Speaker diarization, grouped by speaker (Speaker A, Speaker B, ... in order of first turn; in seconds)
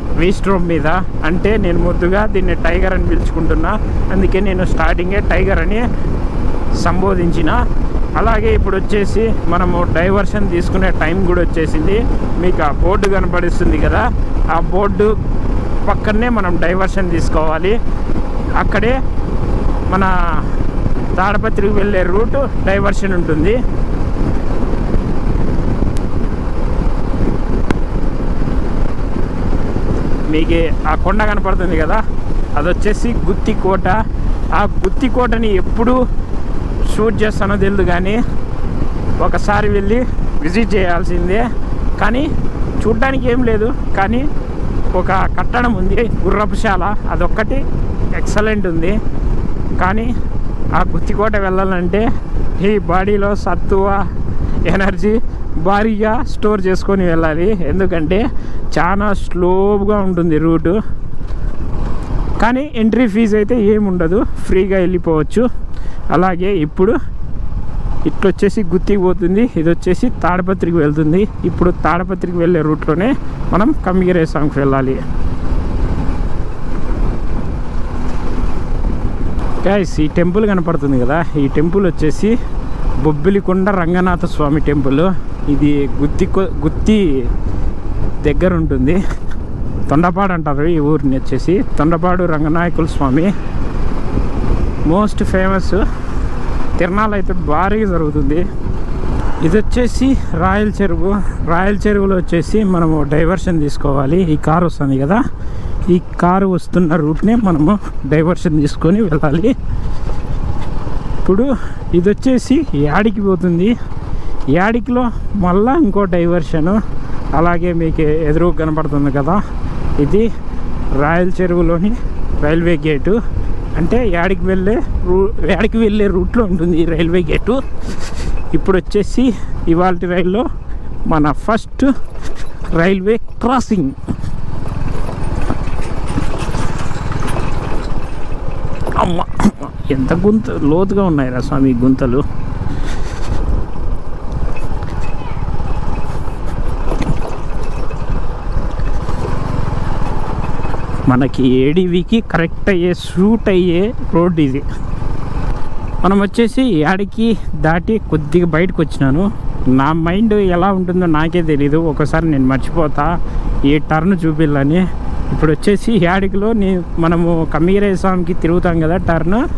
Speaker A: 0.2-5.8, 6.8-7.6, 8.2-15.1, 15.8-17.8, 18.6-19.0, 21.2-23.6, 30.3-32.0, 32.6-34.0, 34.5-36.0, 36.9-38.2, 39.2-41.5, 42.0-42.3, 42.8-44.3, 45.0-47.6, 48.2-49.0, 49.8-50.1, 50.8-52.1, 52.6-54.0, 54.7-60.8, 62.4-65.5, 66.1-67.0, 68.1-75.0, 79.6-82.3, 83.0-87.0, 88.2-89.0, 89.9-93.3, 94.9-95.8, 96.8-98.5, 99.4-105.2, 105.9-109.5, 111.2-113.7, 114.5-116.8, 117.4-119.4, 120.0-120.3, 121.0-123.2, 123.8-130.5, 131.1-131.9, 132.8-134.0, 139.0-142.2, 151.1-154.7, 156.0-163.1, 163.7-169.4